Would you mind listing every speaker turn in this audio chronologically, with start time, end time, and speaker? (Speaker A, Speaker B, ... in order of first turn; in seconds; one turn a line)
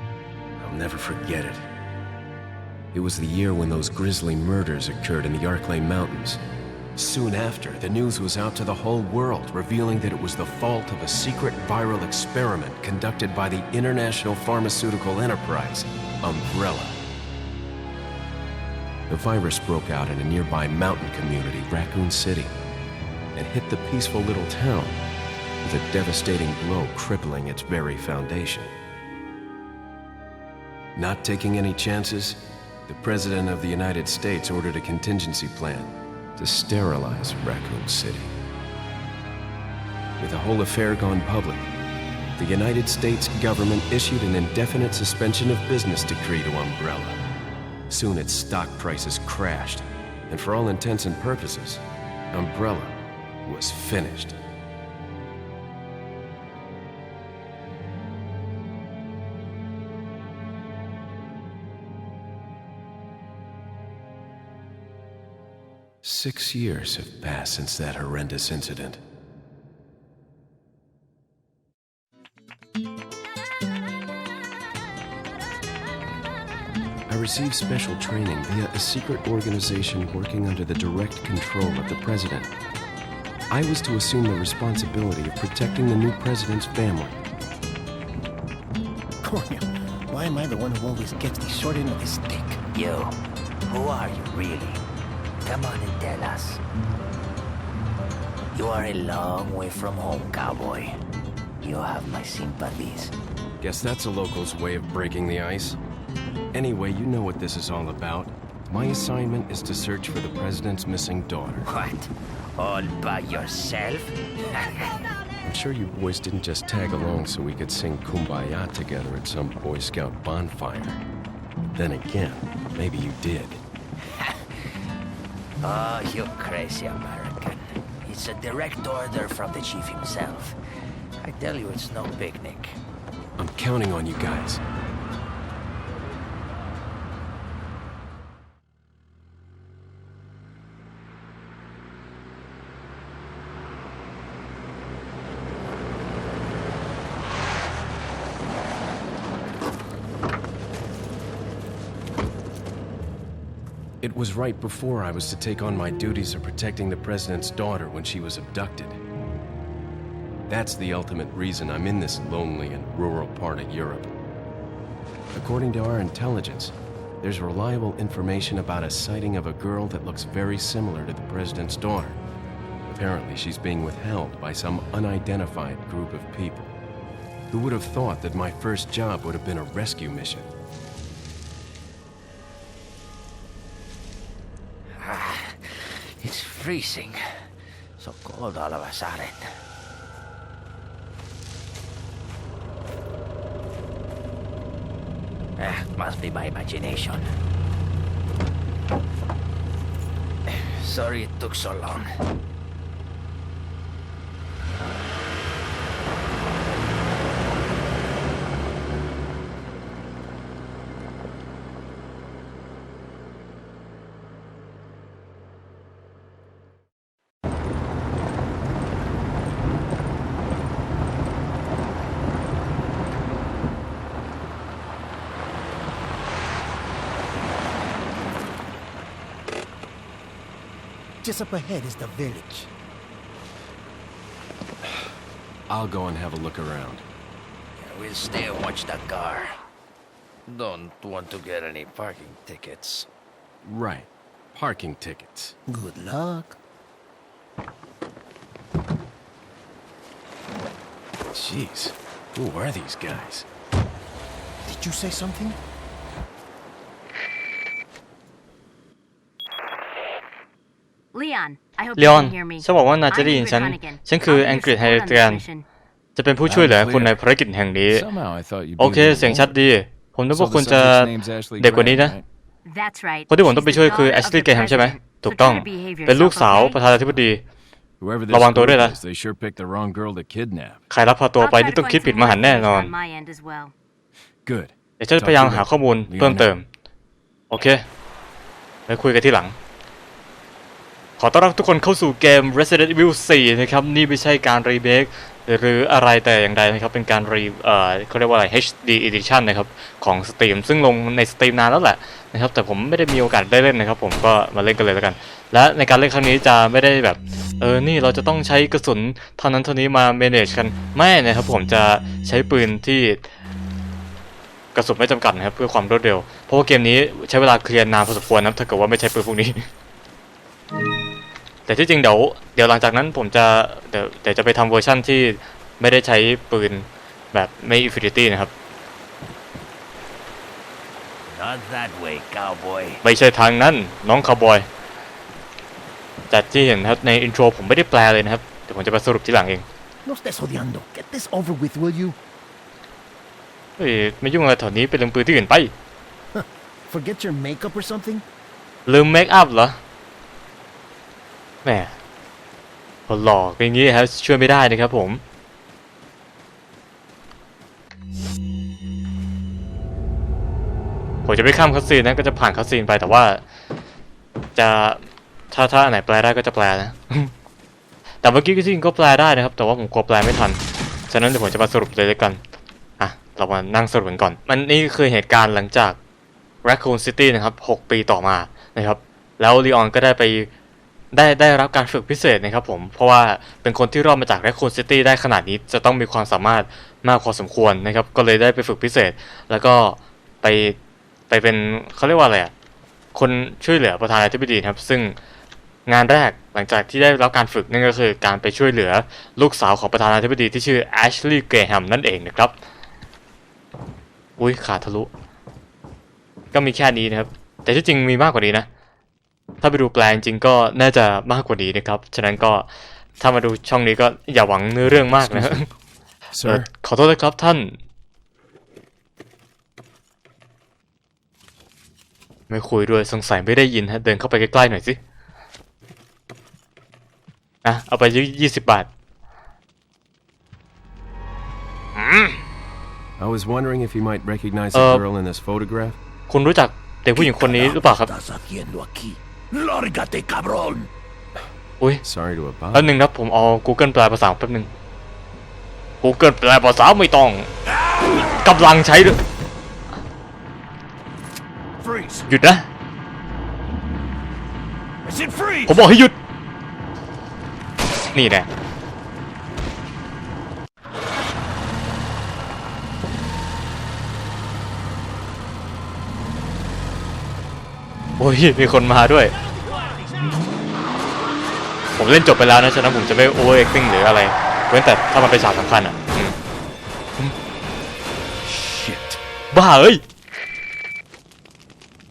Speaker A: 0.6-1.7
Speaker A: 2.9-6.4
Speaker A: 6.9-17.0
Speaker A: 19.1-22.5
Speaker A: 23.3-25.0
Speaker A: 25.6-28.7
Speaker A: 30.9-38.3
Speaker A: 40.2-41.7
Speaker A: 42.4-47.2
Speaker A: 47.9-54.4
Speaker A: 66.0-69.0
Speaker A: 77.1-82.5
Speaker A: 83.5-87.2
Speaker B: 89.2-92.6
Speaker C: 92.7-94.8
Speaker C: 95.4-96.6
Speaker C: 98.5-100.9
Speaker C: 101.6-103.1
Speaker A: 103.6-105.8
Speaker A: 106.5-111.7
Speaker C: 111.7-114.9
Speaker A: 115.4-121.0
Speaker A: 121.7-123.6
Speaker C: 124.0-124.4
Speaker C: 125.6-130.6
Speaker C: 131.2-132.8
Speaker A: 133.4-134.6
Speaker A: 154.0-159.0
Speaker A: 160.5-164.1
Speaker A: 165.3-172.2
Speaker A: 172.9-176.7
Speaker A: 177.5-180.5
Speaker C: 185.0-187.4
Speaker C: 188.0-189.5
Speaker C: 195.6-197.3
Speaker C: 200.5-202.1
Speaker B: 231.2-232.7
Speaker A: 235.7-237.0
Speaker C: 237.8-239.5
Speaker C: 240.4-243.1
Speaker A: 243.6-245.6
Speaker B: 245.7-246.6
Speaker A: 251.3-253.5
Speaker B: 254.7-255.6
Speaker D: 261.1-265.6
Speaker E: 262.0-265.4
Speaker E: 266.1-268.1
Speaker F: 266.4-267.1
Speaker F: 267.9-269.5
Speaker E: 268.8-272.1
Speaker F: 270.3-272.2
Speaker D: 272.6-276.8
Speaker E: 273.3-277.4
Speaker A: 278.0-280.8
Speaker E: 278.3-278.9
Speaker E: 280.9-282.9
Speaker D: 281.4-283.7
Speaker A: 284.4-286.5
Speaker E: 285.0-286.6
Speaker E: 287.5-287.8
Speaker E: 288.9-289.5
Speaker E: 291.2-313.2
Speaker E: 314.7-319.6
Speaker E: 321.7-328.5
Speaker C: 331.3-333.0
Speaker E: 333.0-334.7
Speaker E: 336.3-339.6
Speaker B: 340.1-342.2
Speaker E: 343.8-345.7
Speaker B: 346.3-348.2
Speaker E: 348.9-349.8
Speaker E: 351.6-351.9
Speaker E: 353.1-355.2
Speaker E: 361.2-363.4
Speaker E: 364.6-367.3
Speaker E: 368.2-372.4
Speaker E: 373.0-376.0
Speaker E: 376.6-380.5
Speaker E: 381.1-390.8
Speaker E: 391.3-392.5
Speaker E: 393.1-395.1
Speaker E: 395.9-402.5
Speaker E: 404.4-405.1
Speaker E: 406.5-408.7
Speaker E: 409.6-412.7
Speaker E: 413.2-415.7
Speaker A: 415.2-415.7
Speaker A: 416.3-416.7
Speaker E: 416.4-417.8
Speaker E: 422.5-425.0
Speaker E: 427.6-428.9
Speaker E: 431.9-432.4
Speaker A: 433.2-436.0
Speaker E: 434.7-435.0
Speaker E: 436.3-438.1
Speaker B: 437.1-440.9
Speaker A: 442.0-442.9
Speaker E: 442.7-444.7
Speaker E: 446.0-447.5
Speaker E: 448.1-449.2
Speaker B: 451.8-452.2
Speaker E: 452.3-452.6
Speaker B: 455.0-455.8
Speaker E: 455.6-456.1
Speaker E: 458.1-458.5
Speaker E: 468.2-469.3
Speaker E: 471.9-476.4
Speaker A: 478.5-479.2
Speaker E: 479.5-480.0